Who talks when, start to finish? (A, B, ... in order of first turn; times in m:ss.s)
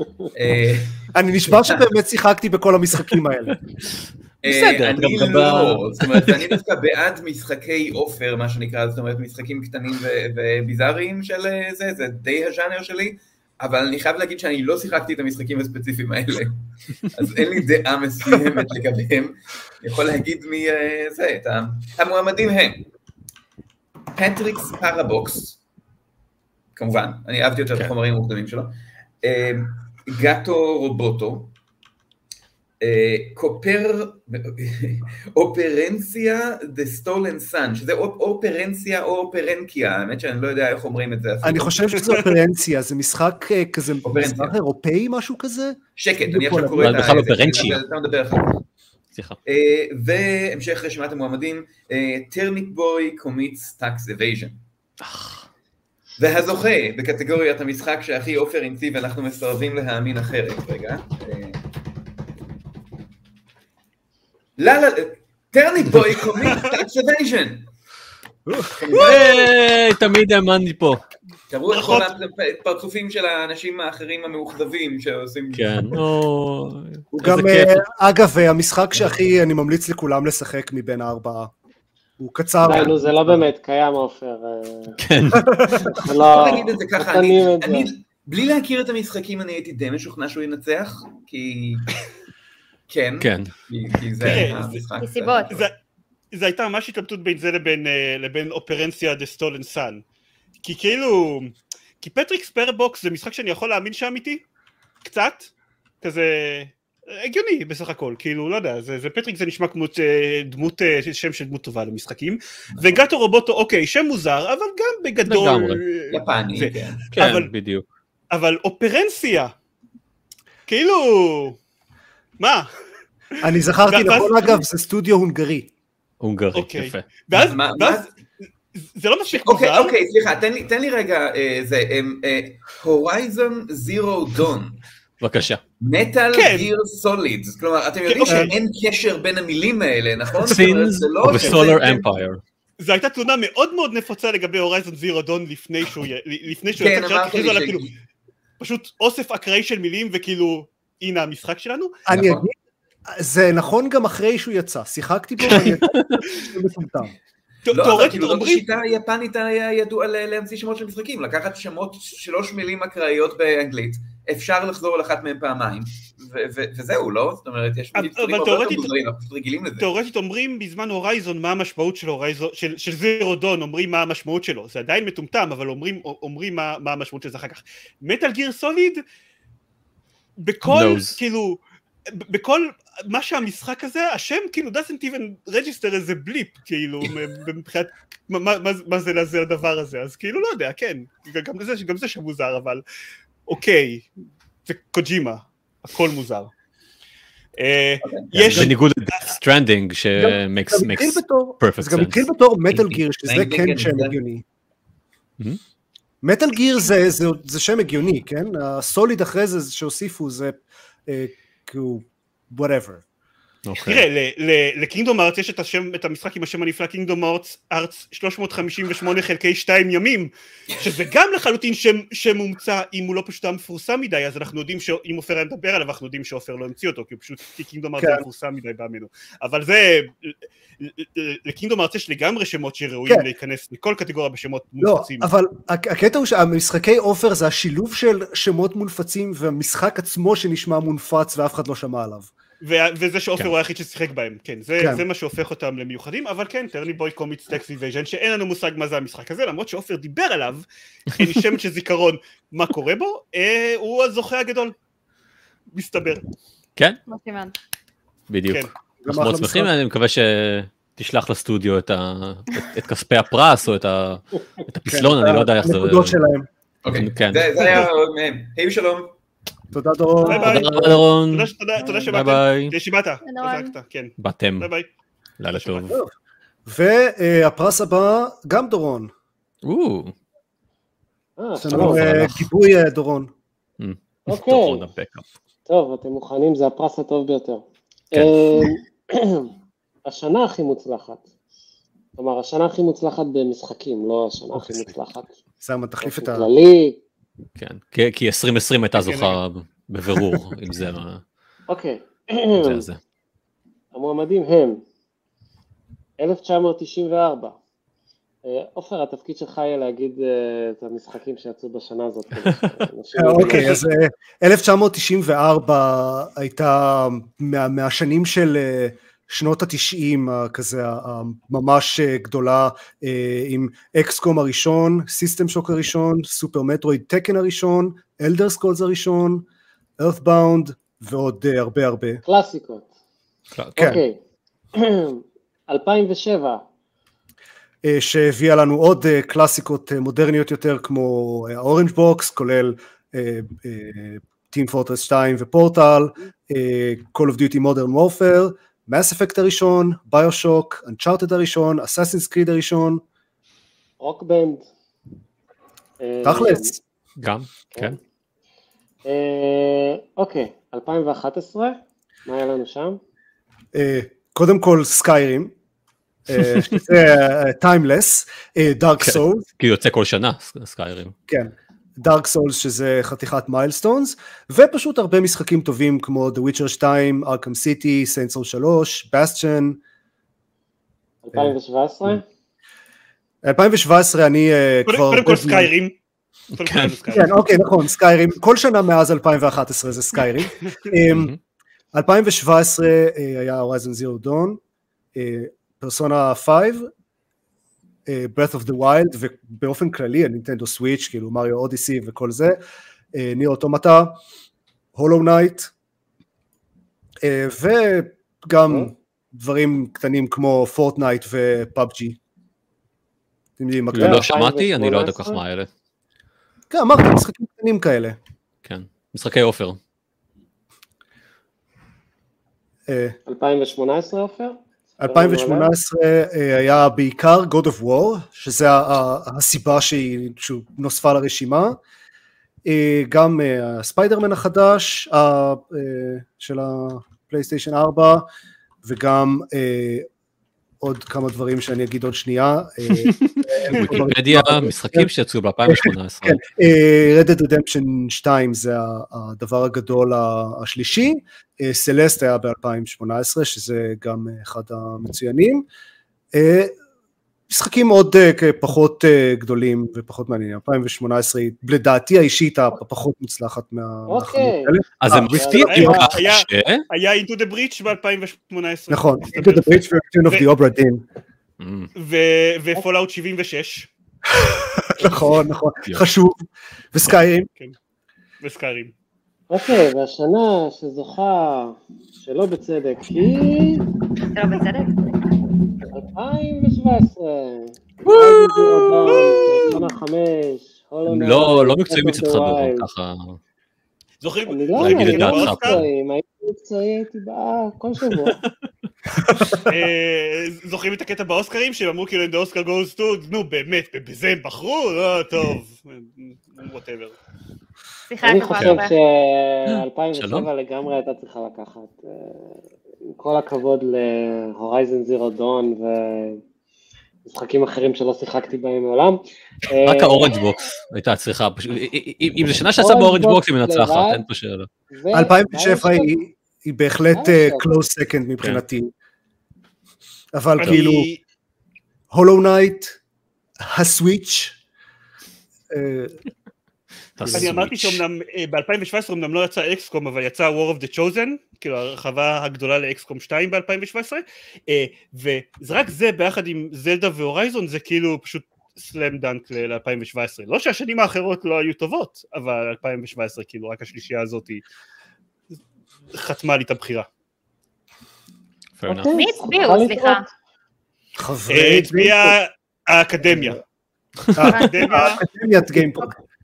0:00.3-0:01.8 A
0:01.2-0:03.6 B
0:04.4-0:06.6 C
0:04.4-0:22.9 A
0:24.1-0:25.6 A
0:26.8-0:31.5 A
0:32.8-0:41.8 A
0:41.4-0:47.1 B
0:44.0-0:44.6 A
0:46.0-0:48.6 A
0:46.8-0:47.8 C
0:49.4-0:54.6 A
0:55.0-0:55.5 C
0:56.2-1:01.6 A
1:04.6-1:07.7 A
1:06.4-1:06.7 D
1:08.5-1:08.8 B
1:08.8-1:09.5 A
1:08.9-1:11.0 C
1:11.5-1:16.0 A
1:11.7-1:12.1 D
1:15.5-1:17.8 C
1:17.1-1:21.5 B
1:22.2-1:23.0 B
1:22.6-1:23.4 C
1:22.6-1:25.0 E
1:25.0-1:25.6 C
1:25.4-1:26.0 B
1:25.7-1:27.9 E
1:26.2-1:31.9 A
1:32.9-1:35.7 A
1:33.2-1:33.5 C
1:34.2-1:34.9 D
1:35.0-1:35.5 F
1:36.3-1:40.0 D
1:40.6-1:44.4 D
1:45.0-1:45.5 D
1:46.0-1:57.5 D
1:55.3-1:55.8 C
1:56.1-1:57.1 A
1:57.2-1:57.8 C
1:58.3-1:59.5 D
2:00.7-2:01.6 D
2:02.4-2:02.7 D
2:03.4-2:05.7 B
2:03.9-2:04.6 D
2:06.2-2:07.1 C
2:06.5-2:08.1 D
2:07.3-2:08.1 A
2:08.8-2:10.0 D
2:09.3-2:14.8 A
2:15.2-2:15.6 C
2:15.8-2:22.0 A
2:16.3-2:16.7 D
2:18.1-2:18.5 D
2:20.3-2:22.4 C
2:21.3-2:21.7 D
2:22.8-2:27.8 D
2:26.8-2:27.9 A
2:28.6-2:32.0 D
2:32.1-2:32.6 B
2:32.1-2:32.5 A
2:33.1-2:37.2 B
2:35.6-2:36.2 C
2:37.7-2:38.6 D
2:37.7-2:49.9 A
2:47.9-2:48.9 D
2:49.8-2:59.0 D
3:00.4-3:12.8 D
3:00.6-3:01.2 C
3:13.5-3:14.1 D
3:14.7-3:16.5 D
3:17.6-3:18.8 D
3:18.0-3:18.6 A
3:18.3-3:23.0 C
3:20.2-3:24.4 B
3:23.2-3:24.2 A
3:26.2-3:33.0 B
3:33.7-3:34.1 C
3:33.8-3:55.3 D
3:48.0-3:48.2 B
3:54.8-4:02.3 B
4:02.6-4:14.8 D
4:15.7-4:16.2 D
4:17.1-4:17.6 F
4:18.3-4:26.2 C
4:19.0-4:19.7 B
4:24.9-4:26.5 B
4:26.8-4:29.1 A
4:27.0-4:27.9 C
4:29.7-4:31.0 B
4:30.2-4:34.9 D
4:30.3-4:31.5 C
4:32.1-4:32.8 C
4:33.2-4:33.8 F
4:34.2-4:34.7 C
4:35.4-4:36.0 C
4:35.7-4:36.1 B
4:36.7-4:39.1 B
4:39.6-4:40.1 C
4:41.4-4:42.0 E
4:41.6-4:43.3 B
4:41.7-4:42.5 C
4:43.8-4:45.2 C
4:44.3-4:44.8 E
4:45.7-4:49.5 E
4:48.1-4:48.7 C
4:50.0-4:51.2 E
4:52.2-4:55.3 E
4:54.6-4:54.9 B
4:55.6-4:56.5 B
4:56.0-4:57.0 E
4:57.6-5:01.2 C
4:59.0-4:59.4 D
5:01.7-5:02.9 E
5:02.6-5:03.0 C
5:03.9-5:04.8 E
5:06.2-5:07.6 E
5:08.4-5:13.8 E
5:12.4-5:12.7 C
5:13.2-5:29.4 B
5:30.0-5:32.2 B
5:32.2-5:32.9 E
5:33.8-5:34.0 B
5:33.8-5:34.2 E
5:34.8-5:36.6 E
5:37.8-5:53.0 B
5:54.0-5:54.7 E
5:56.0-5:56.7 E
5:56.2-5:56.8 B
5:57.2-5:58.0 C
5:59.0-6:03.0 E
6:03.7-6:05.5 B
6:06.3-6:09.5 B
6:06.4-6:06.7 C
6:09.0-6:11.1 C
6:11.3-6:19.8 B
6:21.2-6:22.2 E
6:21.3-6:22.2 B
6:23.4-6:25.7 B
6:24.9-6:26.0 D
6:26.5-6:27.3 D
6:26.6-6:27.2 C
6:27.1-6:31.3 B
6:31.1-6:31.4 C
6:31.9-6:34.6 B
6:35.2-6:36.9 B
6:38.1-6:42.6 B
6:43.1-6:44.2 B
6:45.0-6:45.7 B
6:47.2-6:52.2 B
6:53.6-6:54.3 B
6:53.9-6:55.7 C
6:54.0-6:55.4 E
6:56.7-6:58.2 B
6:58.6-6:59.8 C
7:02.9-7:03.2 B
7:03.3-7:05.7 E
7:05.0-7:11.8 B
7:12.6-7:18.2 B
7:18.8-7:20.1 B
7:20.8-7:25.1 B
7:23.0-7:26.4 C
7:23.7-7:24.0 D
7:25.6-7:35.7 B
7:36.3-7:36.8 B
7:37.5-7:46.1 B
7:44.1-7:44.8 E
7:45.0-7:46.8 C
7:45.3-7:46.0 E
7:45.7-7:50.5 D
7:48.9-7:51.0 B
7:51.6-7:51.9 C
7:52.0-7:53.9 D
7:54.3-7:57.5 B
7:58.4-7:58.9 D
7:59.5-8:03.8 E
8:04.3-8:05.1 F
8:05.9-8:12.9 E
8:08.0-8:09.9 C
8:11.1-8:13.4 C
8:14.2-8:15.8 D
8:14.5-8:18.4 E
8:14.8-8:15.9 C
8:19.7-8:27.2 D
8:28.1-8:29.0 F
8:28.2-8:36.4 E
8:28.6-8:28.8 C
8:29.7-8:30.5 C
8:37.3-8:40.4 E
8:39.8-8:44.7 C
8:42.8-8:44.2 E
8:44.9-8:46.2 E
8:45.1-8:48.9 B
8:47.1-8:47.7 E
8:50.3-8:51.1 B
8:50.6-8:51.2 D
8:52.1-8:53.0 B
8:53.6-8:54.6 B
8:55.7-8:56.2 B
8:57.2-8:58.0 C
8:57.2-8:57.5 B
8:57.3-9:14.6 D
9:16.1-9:17.1 D
9:18.8-9:19.1 C
9:18.9-9:20.2 E
9:19.1-9:20.2 F
9:21.2-9:22.4 B
9:21.5-9:23.6 D
9:23.3-9:23.5 B
9:24.4-9:26.2 B
9:24.4-9:25.2 F
9:24.5-9:25.2 D